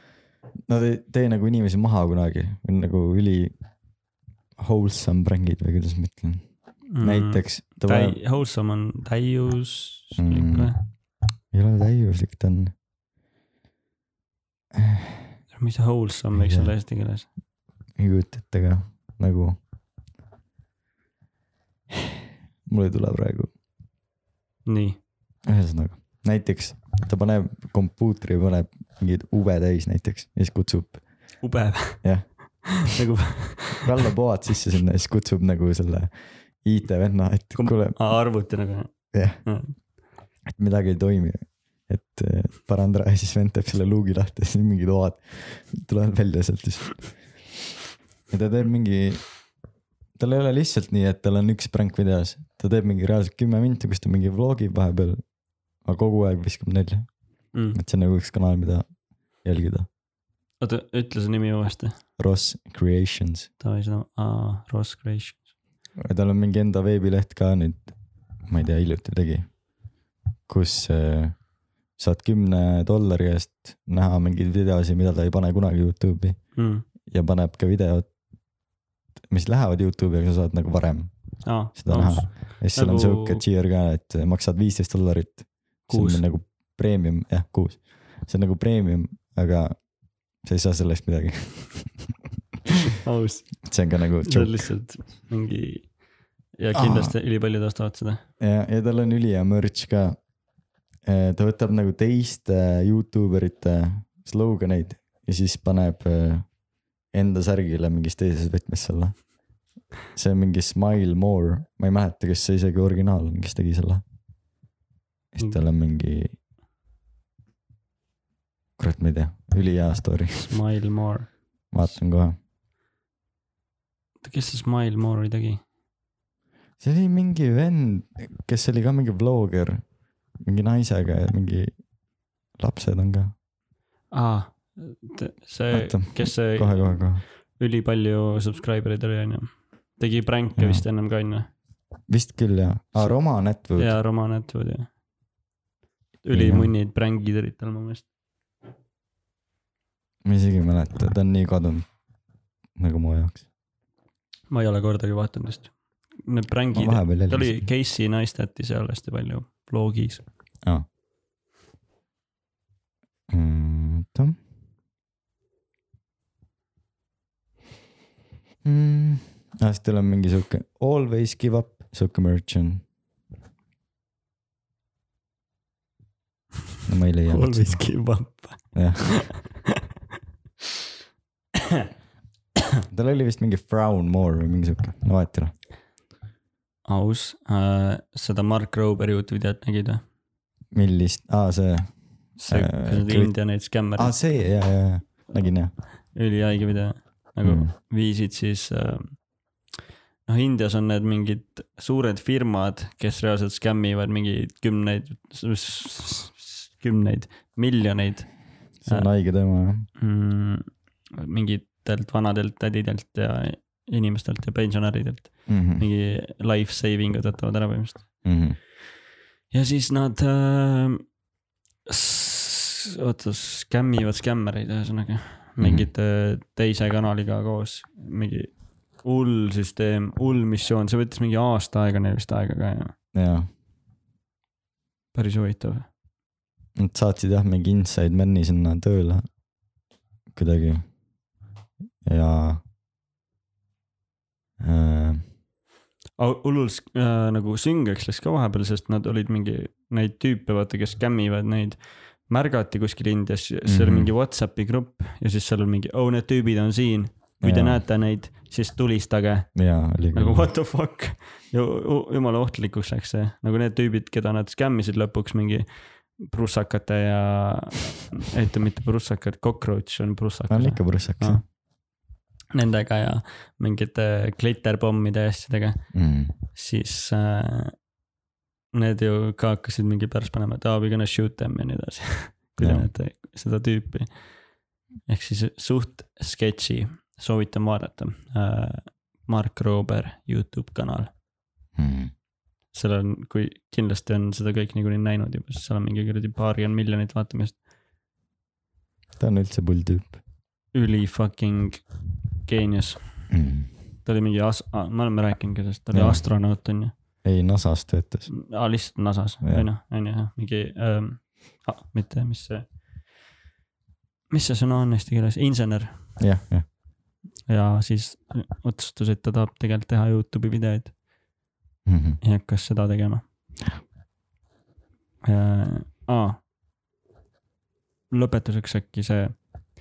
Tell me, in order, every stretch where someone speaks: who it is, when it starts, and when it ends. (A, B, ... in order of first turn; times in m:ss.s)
0:00.7-0:03.5 A
0:04.6-0:06.4 A
0:06.9-0:10.8 B
0:07.0-0:08.2 A
0:10.2-0:10.7 A
0:11.5-0:12.7 A
0:14.8-0:15.2 A
0:15.5-0:17.3 B
0:16.3-0:16.7 A
0:18.0-0:19.6 A
0:22.1-0:23.5 A
0:24.7-0:25.0 B
0:25.5-0:31.0 A
0:31.4-0:33.8 B
0:32.0-0:32.9 A
0:33.8-0:38.0 A
0:37.6-0:39.8 B
0:39.1-0:39.4 A
0:40.6-0:47.2 A
0:48.3-0:49.4 A
0:50.2-0:55.2 A
0:55.8-0:57.1 A
0:57.7-0:58.9 A
0:59.4-0:59.9 A
1:00.6-1:02.0 B
1:02.2-1:03.5 A
1:03.6-1:05.5 B
1:06.0-1:07.9 A
1:08.5-1:09.5 A
1:10.5-1:11.4 A
1:12.0-1:16.4 A
1:16.6-1:16.8 B
1:17.1-1:18.1 A
1:19.3-1:21.1 A
1:21.4-1:23.4 B
1:21.6-1:29.9 A
1:25.9-1:26.2 B
1:30.4-1:31.9 A
1:33.0-1:33.6 B
1:33.6-1:34.7 A
1:34.2-1:36.0 B
1:36.6-1:38.2 B
1:36.7-1:37.2 A
1:38.4-1:40.2 A
1:41.1-1:46.5 A
1:47.1-1:49.3 A
1:50.1-1:54.0 A
1:55.3-1:56.3 A
1:58.8-2:00.5 A
2:00.4-2:01.3 B
2:01.7-2:02.4 A
2:04.2-2:05.6 B
2:06.8-2:09.8 A
2:10.4-2:11.7 A
2:12.6-2:13.3 A
2:14.1-2:21.5 B
2:15.7-2:17.2 A
2:20.6-2:20.8 A
2:22.1-2:23.9 A
2:23.8-2:24.9 B
2:26.2-2:28.1 B
2:26.3-2:26.7 A
2:30.2-2:31.9 A
2:32.8-2:33.4 A
2:34.5-2:40.2 B
2:36.7-2:37.7 A
2:43.3-2:44.4 A
2:48.6-2:52.8 A
2:56.9-2:57.9 A
2:57.3-2:59.6 B
2:58.7-2:59.3 A
3:02.9-3:05.5 A
3:06.9-3:10.0 B
3:10.7-3:13.4 A
3:12.4-3:14.2 B
3:14.0-3:15.7 A
3:16.1-3:19.2 B
3:17.4-3:17.7 A
3:20.3-3:29.1 B
3:28.8-3:29.9 A
3:30.0-3:38.2 B
3:35.5-3:35.9 A
3:38.2-3:38.6 A
3:39.5-3:41.0 B
3:41.9-3:52.9 B
3:45.6-3:45.9 A
3:53.1-3:53.5 A
3:55.1-3:55.9 B
3:56.8-3:59.2 A
4:00.3-4:00.9 A
4:02.0-4:02.6 A
4:04.6-4:05.2 A
4:06.2-4:19.5 B
4:13.7-4:14.1 A
4:17.4-4:17.8 A
4:19.6-4:20.5 A
4:20.1-4:25.7 B
4:26.2-4:31.4 B
4:30.5-4:31.4 A
4:32.6-4:35.8 B
4:35.9-4:36.3 A
4:36.5-4:37.8 B
4:38.7-4:44.4 B
4:42.6-4:42.9 A
4:45.1-4:51.1 B
4:51.8-4:52.1 A
4:52.7-4:57.6 B
4:59.2-5:00.2 A
5:00.7-5:01.8 B
5:02.4-5:03.0 B
5:03.3-5:03.7 A
5:04.0-5:06.9 B
5:05.9-5:06.3 A
5:07.2-5:08.3 A
5:08.3-5:12.7 B
5:14.3-5:16.1 B
5:16.2-5:16.7 A
5:17.5-5:21.0 B
5:21.9-5:22.2 A
5:22.2-5:23.2 B
5:25.2-5:26.4 B
5:28.1-5:29.4 B